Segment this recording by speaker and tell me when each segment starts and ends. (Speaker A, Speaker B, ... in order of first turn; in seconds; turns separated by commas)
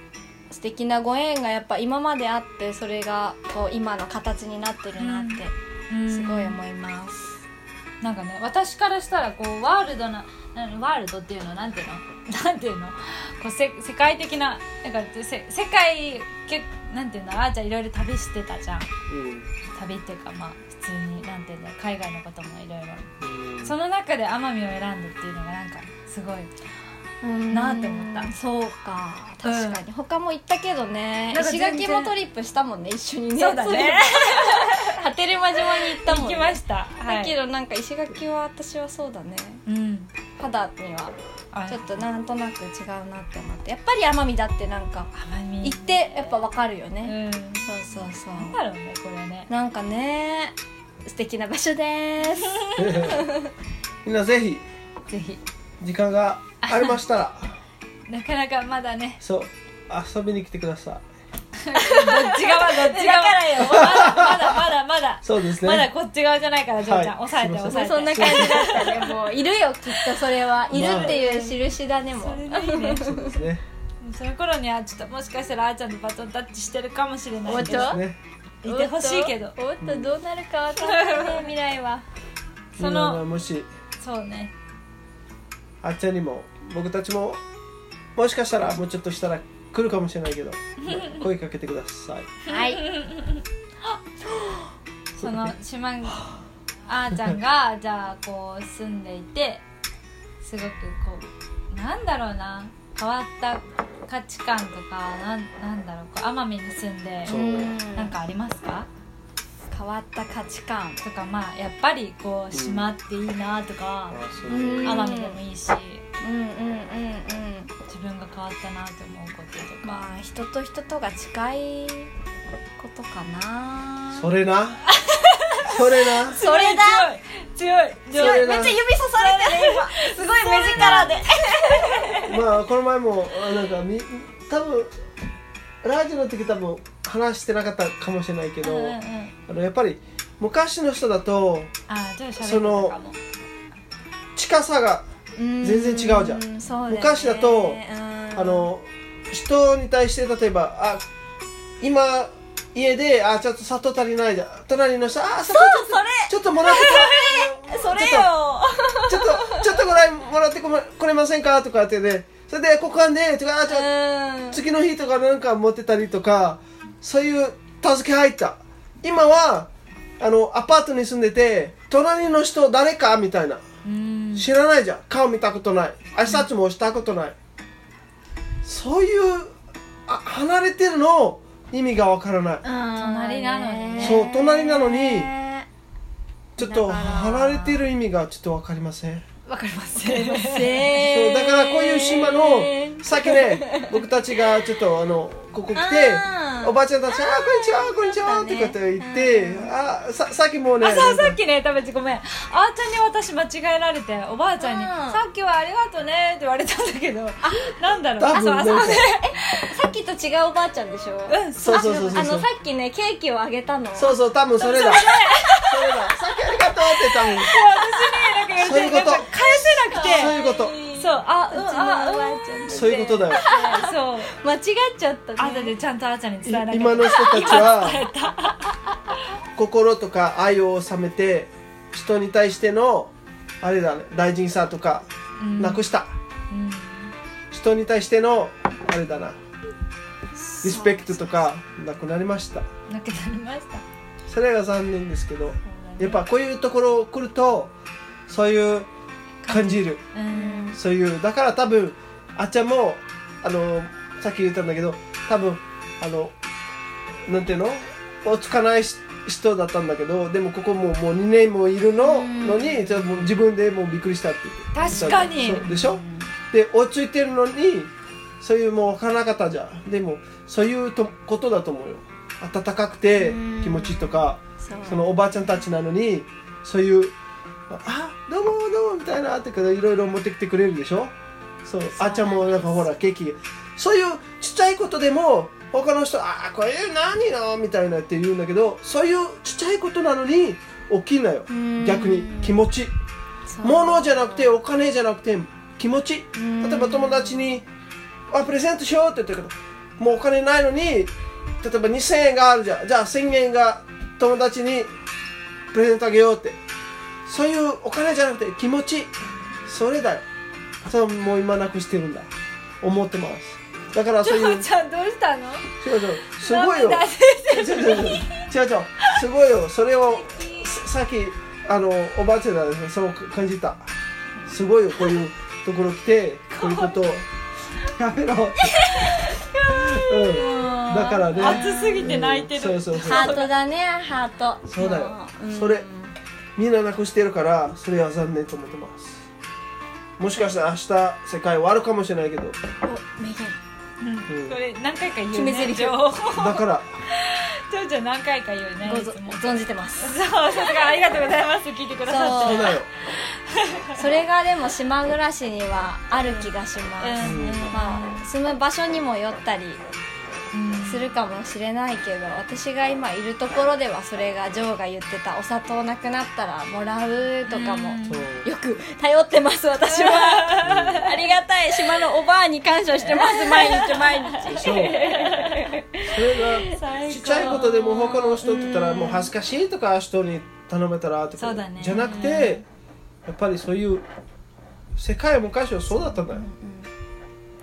Speaker A: 0.5-5.5, Speaker B: 5.0-6.6, Speaker A: 6.1-7.4, Speaker B: 8.0-18.9, Speaker C: 19.1-19.5, Speaker B: 19.8-23.1, Speaker C: 23.2-23.8, Speaker B: 23.6-26.5, Speaker A: 27.2-39.6, Speaker B: 27.5-28.3, Speaker B: 29.4-29.8, Speaker B: 31.3-32.1, Speaker B: 33.4-35.0, Speaker B: 35.7-37.4, Speaker B: 39.7-40.1, Speaker A: 40.4-41.1, Speaker B: 41.5-42.0, Speaker A: 41.7-45.1, Speaker B: 45.1-46.0, Speaker A: 45.6-48.6, Speaker B: 47.0-49.5, Speaker A: 49.5-50.5, Speaker A: 51.1-53.5, Speaker B: 52.4-53.1, Speaker C: 52.8-53.3, Speaker C: 54.0-54.6, Speaker B: 55.1-55.4, Speaker C: 55.8-57.6, Speaker B: 56.6-57.0, Speaker B: 58.1-59.2, Speaker C: 59.2-61.0, Speaker A: 61.7-64.1, Speaker B: 61.7-69.0, Speaker C: 63.6-64.6, Speaker C: 65.2-65.9, Speaker C: 66.8-68.8, Speaker A: 67.7-73.4, Speaker C: 70.7-71.2, Speaker B: 70.7-71.6, Speaker B: 72.2-73.1, Speaker C: 73.0-73.6, Speaker B: 74.0-78.0, Speaker A: 77.5-78.0, Speaker C: 77.5-78.2, Speaker B: 78.6-79.5, Speaker A: 78.7-82.0, Speaker C: 79.8-80.2, Speaker B: 80.8-81.5, Speaker B: 82.8-83.2, Speaker C: 82.8-83.7, Speaker B: 84.0-84.5, Speaker C: 85.8-87.4, Speaker C: 88.2-92.3, Speaker B: 90.8-91.3, Speaker B: 92.5-94.0, Speaker A: 92.5-92.8, Speaker B: 95.2-96.2, Speaker C: 95.2-95.5, Speaker B: 96.9-99.6, Speaker B: 100.4-108.9, Speaker C: 107.2-107.8, Speaker A: 107.3-108.2, Speaker A: 109.7-111.0, Speaker B: 111.0-114.2, Speaker C: 112.5-112.9, Speaker C: 114.1-115.1, Speaker A: 114.5-115.4, Speaker B: 114.8-116.0, Speaker A: 116.2-117.7, Speaker B: 117.9-120.1, Speaker A: 119.8-122.1, Speaker A: 122.8-124.3, Speaker C: 124.1-124.9, Speaker B: 124.9-132.4, Speaker C: 125.7-126.4, Speaker A: 126.3-127.2, Speaker C: 128.1-128.8, Speaker A: 128.1-132.2, Speaker C: 130.8-131.2, Speaker C: 132.2-134.9, Speaker C: 135.8-141.7, Speaker B: 138.6-139.3, Speaker B: 141.9-143.2, Speaker C: 142.4-143.0, Speaker C: 144.4-145.1, Speaker A: 145.4-148.7, Speaker C: 145.6-147.8, Speaker C: 148.3-151.0, Speaker C: 151.8-158.3, Speaker A: 155.5-159.8, Speaker C: 159.1-163.9, Speaker A: 163.7-164.6, Speaker C: 164.5-173.6, Speaker B: 173.8-174.5, Speaker C: 174.3-177.3, Speaker C: 178.6-179.5, Speaker C: 180.1-182.6, Speaker A: 182.6-185.7, Speaker B: 183.0-184.2, Speaker C: 184.0-185.3, Speaker C: 186.6-189.2, Speaker A: 186.6-187.8, Speaker B: 189.5-190.9, Speaker A: 190.0-194.2, Speaker C: 190.9-201.4, Speaker A: 195.7-199.7, Speaker B: 200.8-209.7, Speaker A: 204.6-205.2, Speaker A: 207.5-207.7, Speaker C: 208.2-209.0, Speaker A: 209.0-215.8, Speaker B: 211.3-212.3, Speaker C: 211.6-212.5, Speaker C: 213.9-215.1, Speaker B: 214.6-216.0, Speaker C: 215.7-217.5, Speaker A: 216.7-218.7, Speaker B: 217.4-220.3, Speaker C: 218.6-220.8, Speaker A: 219.5-225.8, Speaker B: 220.9-224.3, Speaker C: 222.7-223.4, Speaker B: 225.4-229.0, Speaker C: 226.4-228.0, Speaker A: 227.1-227.7, Speaker C: 229.6-236.2, Speaker B: 235.4-235.9, Speaker B: 236.5-237.1, Speaker C: 237.5-239.4, Speaker A: 240.5-241.3, Speaker C: 240.6-242.7, Speaker B: 242.9-243.8, Speaker C: 244.3-247.7, Speaker B: 245.7-246.2, Speaker C: 248.3-248.9, Speaker B: 249.4-250.8, Speaker C: 249.5-250.1, Speaker A: 250.3-250.8, Speaker C: 250.7-256.4, Speaker C: 257.3-277.1, Speaker B: 262.0-263.3, Speaker B: 264.7-265.8, Speaker A: 264.9-266.3, Speaker A: 273.2-275.1, Speaker C: 277.7-281.1, Speaker C: 281.6-292.9, Speaker B: 282.0-282.6, Speaker A: 282.4-282.7, Speaker A: 291.5-292.6, Speaker A: 293.5-294.6, Speaker C: 293.6-297.7, Speaker A: 296.4-297.5, Speaker C: 298.3-304.9, Speaker C: 305.7-306.6, Speaker C: 307.3-309.1, Speaker C: 309.7-310.2, Speaker C: 310.9-312.3, Speaker C: 312.8-314.7, Speaker B: 314.2-315.7, Speaker C: 315.8-323.9, Speaker B: 316.2-318.5, Speaker B: 320.1-320.8, Speaker C: 324.5-327.3, Speaker B: 326.5-327.1, Speaker C: 328.0-328.9, Speaker B: 328.8-333.5, Speaker C: 329.9-333.4, Speaker A: 330.4-332.1, Speaker A: 333.0-336.1, Speaker C: 334.7-335.9, Speaker C: 336.6-339.2, Speaker C: 340.2-342.6, Speaker A: 342.8-343.6, Speaker B: 344.0-352.9, Speaker C: 344.3-344.6, Speaker A: 345.3-346.0, Speaker C: 346.3-347.0, Speaker A: 348.8-350.2, Speaker A: 352.1-352.8, Speaker C: 352.3-352.9, Speaker B: 353.5-353.9, Speaker A: 353.9-359.8, Speaker B: 357.0-358.2, Speaker C: 357.2-357.7, Speaker B: 360.5-361.1, Speaker A: 360.8-376.8, Speaker B: 367.5-368.3, Speaker C: 368.1-368.5, Speaker B: 369.8-371.1, Speaker C: 370.6-371.1, Speaker B: 372.9-375.7, Speaker C: 374.4-375.1, Speaker C: 376.1-382.6, Speaker B: 376.4-377.9, Speaker A: 377.4-379.3, Speaker B: 381.4-382.6, Speaker C: 383.3-384.1, Speaker C: 385.0-386.4, Speaker A: 385.9-386.9